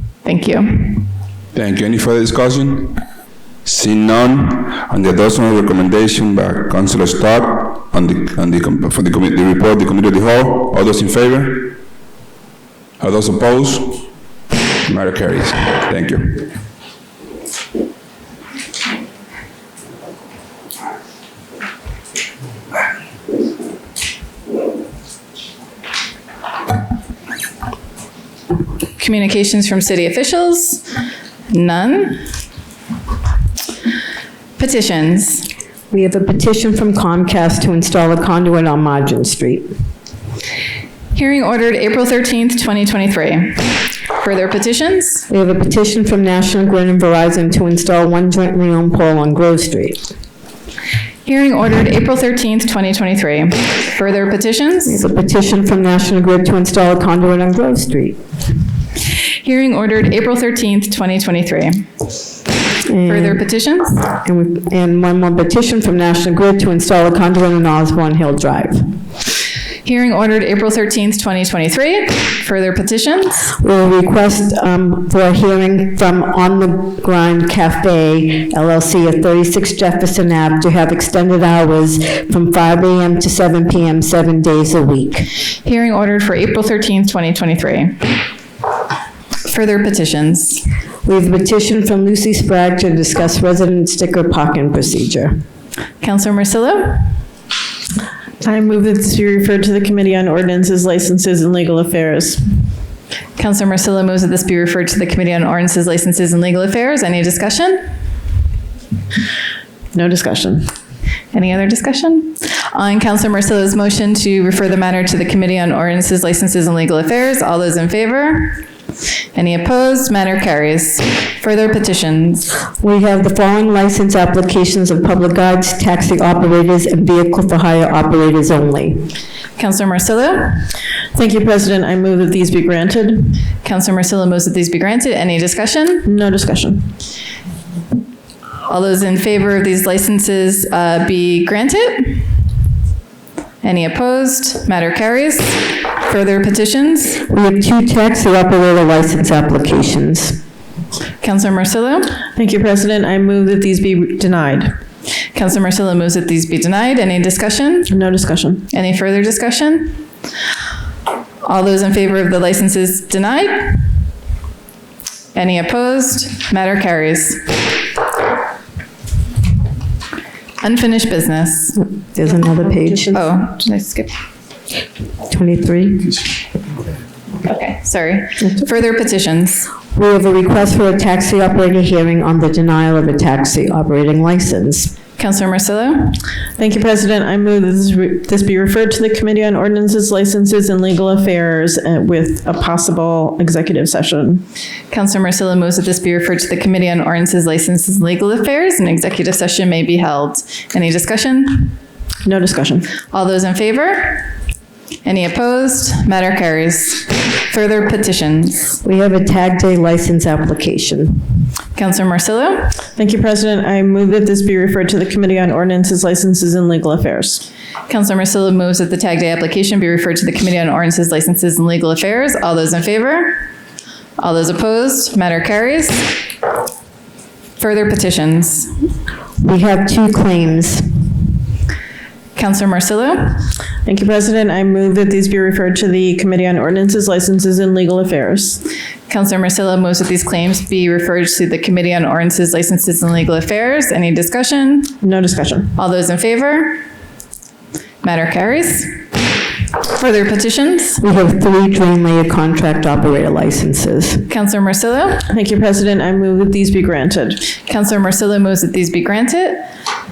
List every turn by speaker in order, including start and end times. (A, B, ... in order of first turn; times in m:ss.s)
0:00.2-0:01.0 A
0:01.5-0:03.0 B
0:03.6-0:11.8 B
0:13.0-0:14.1 B
0:14.8-0:16.5 B
0:29.0-0:30.9 A
0:31.5-0:32.3 A
0:34.6-0:35.5 A
0:35.9-0:39.7 C
0:41.1-0:45.3 A
0:45.3-0:50.1 C
0:51.2-0:55.0 A
0:54.9-0:58.2 C
0:59.4-1:01.8 A
1:02.9-1:03.4 C
1:03.1-1:04.0 A
1:04.0-1:08.9 C
1:09.8-1:13.5 A
1:13.6-1:25.3 C
1:25.6-1:28.2 A
1:29.5-1:30.6 A
1:31.0-1:35.4 C
1:36.0-1:37.2 A
1:38.4-1:42.4 D
1:43.4-1:48.0 A
1:49.9-1:50.7 D
1:51.3-1:58.6 A
1:59.4-2:02.5 A
2:02.8-2:09.1 C
2:09.6-2:10.7 A
2:11.1-2:13.4 D
2:13.6-2:16.1 A
2:16.0-2:16.9 D
2:18.7-2:22.4 A
2:23.6-2:27.2 A
2:27.3-2:30.4 C
2:31.2-2:32.2 A
2:32.4-2:34.8 D
2:35.3-2:37.9 A
2:37.9-2:38.7 D
2:38.7-2:40.1 A
2:41.4-2:43.9 A
2:45.4-2:47.6 A
2:50.6-2:51.8 A
2:51.8-2:53.2 C
2:53.1-2:54.1 A
2:55.3-2:56.2 C
2:57.4-2:59.7 A
2:59.9-3:05.0 C
3:05.2-3:06.2 A
3:06.6-3:14.4 D
3:14.9-3:21.8 A
3:22.2-3:22.9 D
3:23.1-3:24.3 A
3:25.0-3:28.8 A
3:28.8-3:31.3 C
3:31.8-3:32.8 A
3:33.0-3:37.4 D
3:37.9-3:43.5 A
3:44.2-3:46.2 A
3:47.6-3:48.8 A
3:49.4-3:51.0 C
3:52.4-3:53.5 A
3:53.8-3:58.6 D
3:59.1-4:05.0 A
4:05.0-4:05.7 D
4:05.8-4:06.8 A
4:08.0-4:09.0 A
4:09.9-4:11.0 A
4:11.0-4:14.3 C
4:14.3-4:15.3 A
4:15.3-4:17.4 D
4:17.6-4:19.7 A